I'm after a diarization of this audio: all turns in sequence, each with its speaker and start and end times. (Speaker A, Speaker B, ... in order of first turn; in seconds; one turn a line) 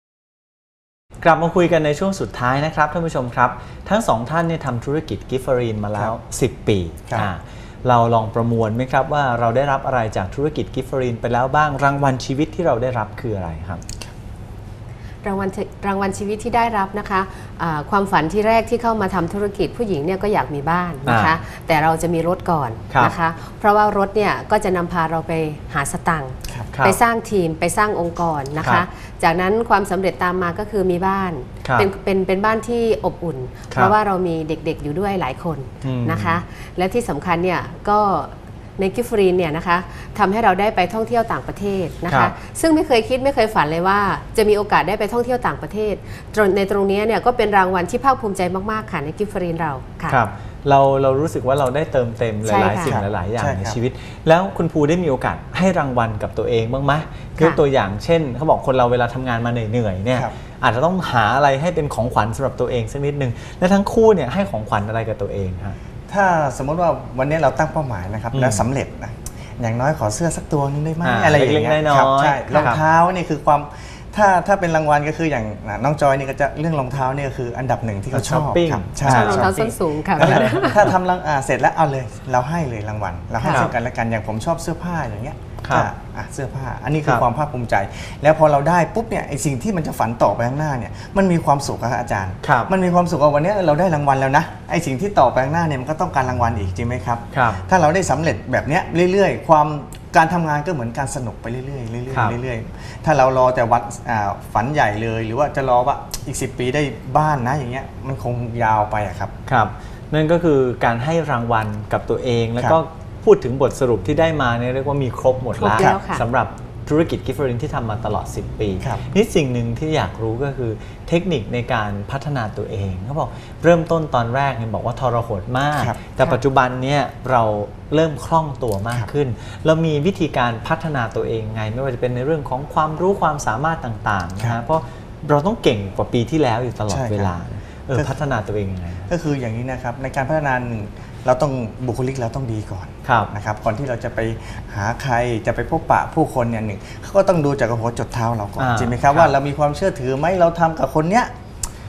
Speaker A: 1.2-13.8
Speaker B: 15.2-50.2
Speaker A: 21.1-21.4
Speaker A: 26.7-27.0
Speaker A: 28.6-28.8
Speaker A: 35.8-36.4
Speaker A: 42.1-42.3
Speaker A: 50.1-65.8
Speaker B: 52.4-53.0
Speaker C: 52.8-53.8
Speaker C: 66.1-79.5
Speaker A: 68.3-68.6
Speaker A: 71.0-72.8
Speaker A: 78.1-80.9
Speaker B: 79.0-80.8
Speaker C: 80.2-109.3
Speaker B: 83.4-83.7
Speaker A: 83.5-83.7
Speaker A: 85.6-85.9
Speaker A: 92.4-92.7
Speaker A: 97.3-97.6
Speaker A: 102.1-102.4
Speaker A: 109.5-139.1
Speaker B: 115.5-116.2
Speaker C: 125.7-126.0
Speaker C: 136.9-137.4
Speaker C: 139.1-151.3
Speaker A: 143.0-143.3
Speaker A: 148.6-149.3